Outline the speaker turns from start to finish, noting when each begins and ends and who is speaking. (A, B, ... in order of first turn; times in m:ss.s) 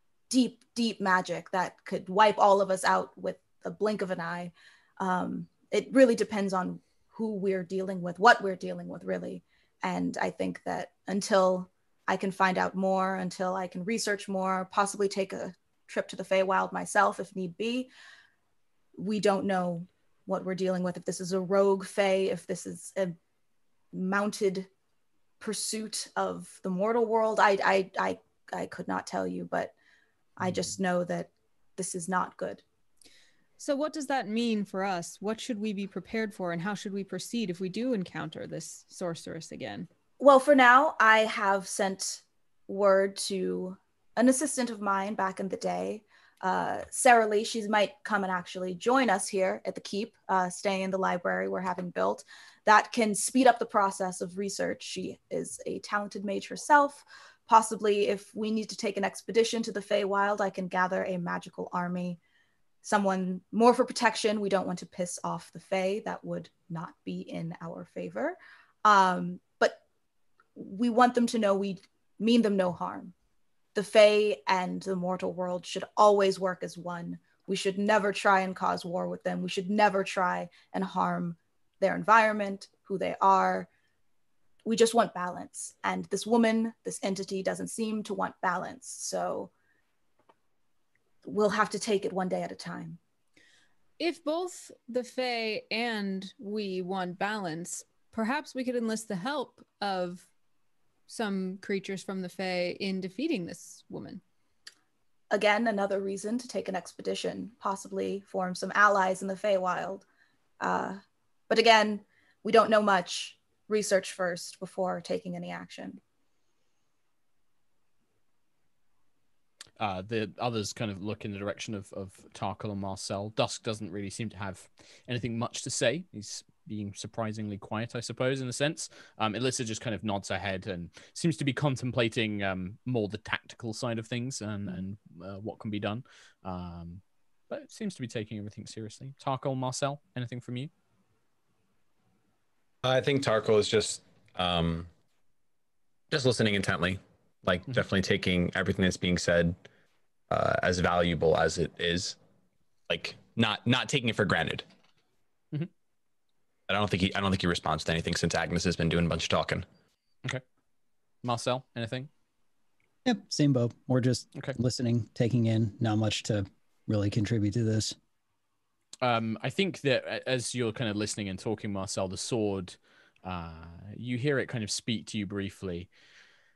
0:00.3-0:17.9 A
0:19.0-0:23.2 A
0:23.9-0:24.7 A
0:25.4-0:29.7 A
0:30.4-0:32.6 A
0:33.6-0:39.9 B
0:40.2-1:02.2 A
1:02.8-1:09.8 A
1:10.6-1:13.1 A
1:13.8-1:23.7 A
1:24.6-1:29.5 A
1:31.2-1:33.0 A
1:34.0-1:40.3 B
1:41.1-1:44.2 B
1:45.3-1:50.0 A
1:50.6-1:56.0 A
1:59.8-2:20.7 C
2:22.8-2:24.9 D
2:26.1-2:29.6 D
2:30.3-2:32.2 D
2:32.9-2:34.6 D
2:36.7-2:39.6 D
2:41.2-2:42.1 C
2:43.0-2:48.0 E
2:49.0-2:55.9 C